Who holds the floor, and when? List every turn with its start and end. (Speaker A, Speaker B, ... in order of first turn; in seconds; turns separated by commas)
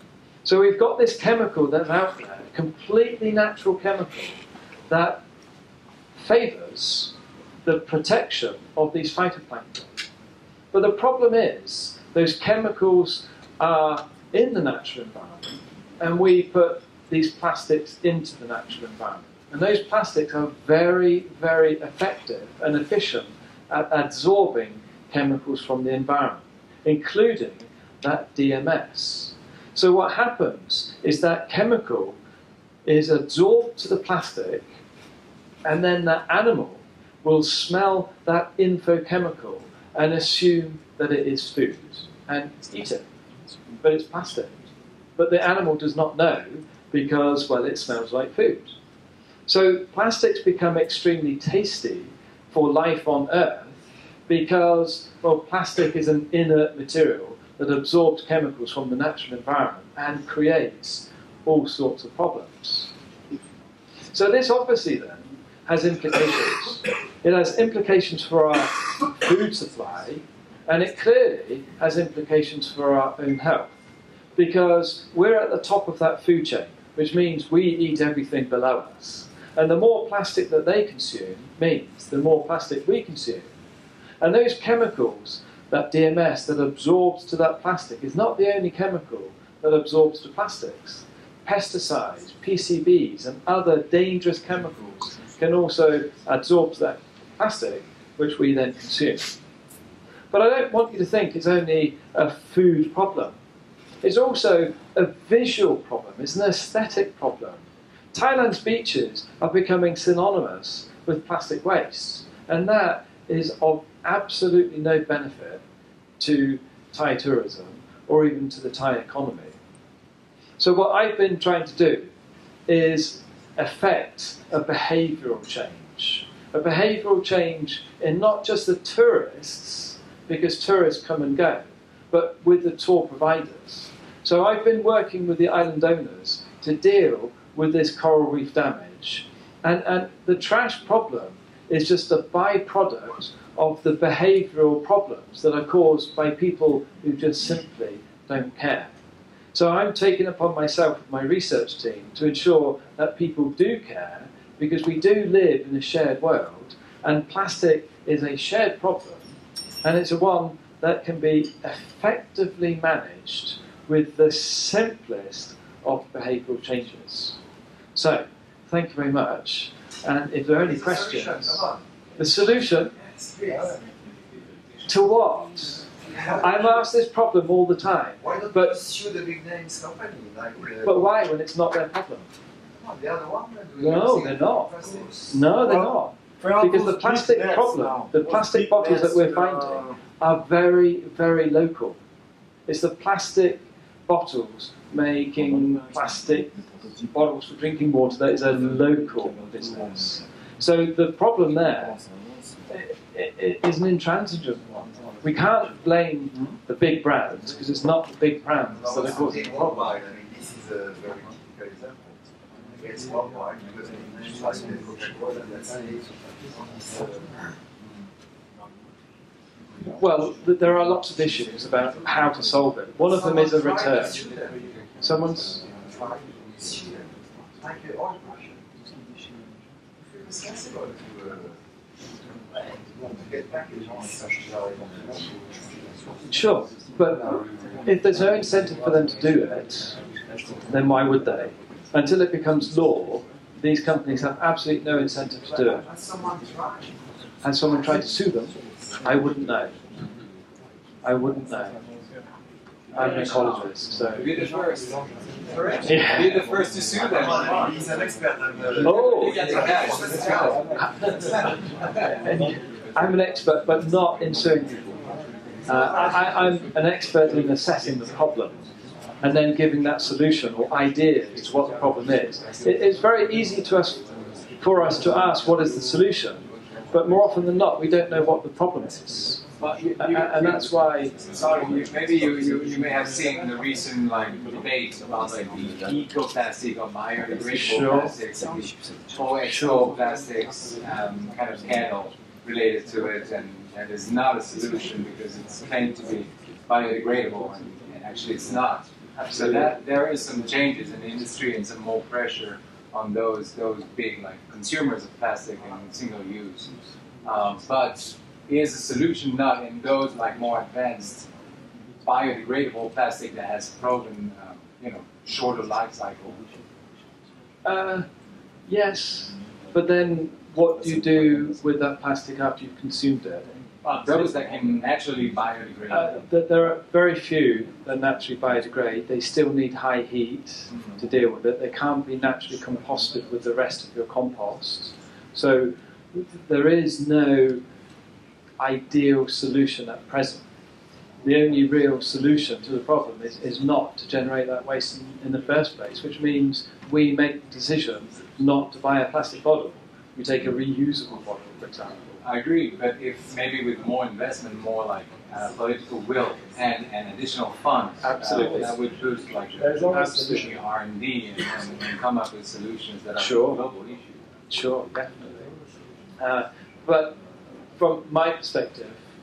Speaker A: 0.4-5.2, Speaker A: 6.2-9.9, Speaker A: 10.7-32.2, Speaker A: 32.8-34.7, Speaker A: 35.6-43.0, Speaker A: 43.8-44.6, Speaker A: 45.2-48.7, Speaker A: 49.5-62.9, Speaker A: 64.1-73.7, Speaker A: 74.3-83.5, Speaker A: 84.2-99.3, Speaker A: 100.3-103.3, Speaker A: 104.0-115.6, Speaker A: 116.2-119.5, Speaker A: 120.6-122.1, Speaker A: 122.7-148.9, Speaker A: 149.5-159.3, Speaker A: 159.8-167.4, Speaker A: 167.9-171.6, Speaker B: 170.7-172.2, Speaker A: 172.2-172.9, Speaker B: 173.2-173.9, Speaker A: 174.9-175.8, Speaker B: 175.9-176.8, Speaker A: 176.4-178.8, Speaker B: 178.2-181.0, Speaker A: 180.8-182.3, Speaker B: 182.7-190.0, Speaker A: 183.8-192.0, Speaker A: 192.7-196.6, Speaker A: 197.1-202.0, Speaker A: 202.7-209.4, Speaker B: 208.8-212.0, Speaker B: 212.7-217.3, Speaker A: 219.9-224.2, Speaker B: 223.0-224.6, Speaker A: 225.0-225.6, Speaker B: 225.7-231.5, Speaker B: 232.5-236.1, Speaker A: 236.3-240.0, Speaker A: 240.7-245.8, Speaker B: 245.8-247.0, Speaker A: 247.4-249.8, Speaker A: 251.0-251.8, Speaker C: 252.9-257.8, Speaker A: 252.9-254.3, Speaker B: 255.5-256.2, Speaker A: 255.8-256.4, Speaker B: 257.0-261.6, Speaker C: 258.8-260.9, Speaker A: 258.8-259.7, Speaker A: 262.1-264.9, Speaker A: 265.7-268.6, Speaker A: 269.2-274.1, Speaker A: 274.6-281.2, Speaker C: 279.6-311.3, Speaker A: 287.5-288.1, Speaker C: 312.0-316.4, Speaker A: 317.6-318.1, Speaker A: 318.7-323.4, Speaker C: 323.8-326.2, Speaker A: 324.0-324.4, Speaker A: 325.9-337.6, Speaker A: 338.6-340.4, Speaker A: 341.2-352.2, Speaker C: 352.2-364.2, Speaker A: 358.0-358.7, Speaker B: 359.7-360.4, Speaker A: 359.9-360.5, Speaker A: 363.2-363.6, Speaker A: 364.5-365.4, Speaker A: 366.2-367.2, Speaker A: 367.8-369.0